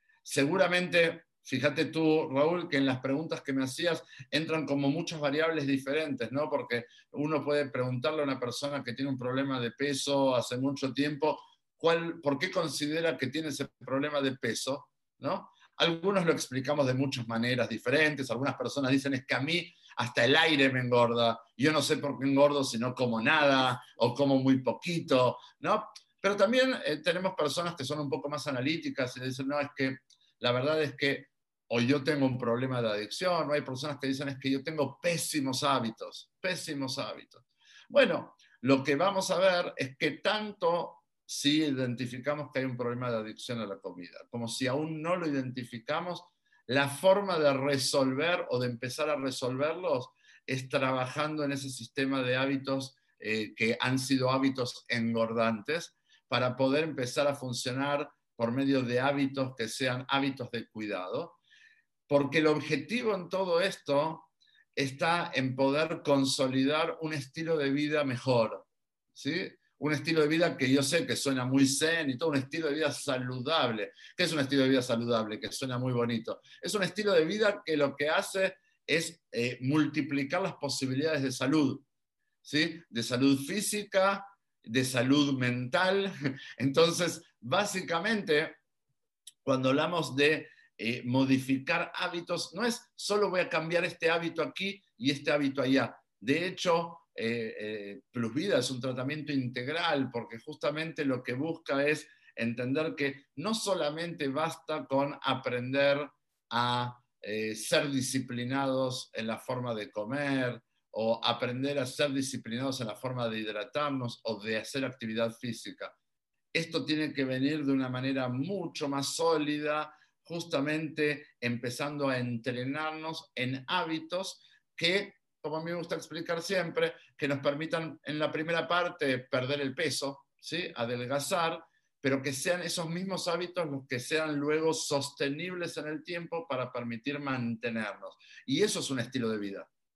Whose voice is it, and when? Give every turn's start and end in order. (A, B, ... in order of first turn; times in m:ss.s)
0:00.2-1:01.4 A
1:02.1-1:21.8 A
1:22.4-1:28.6 A
1:29.4-1:55.9 A
1:56.5-2:19.7 A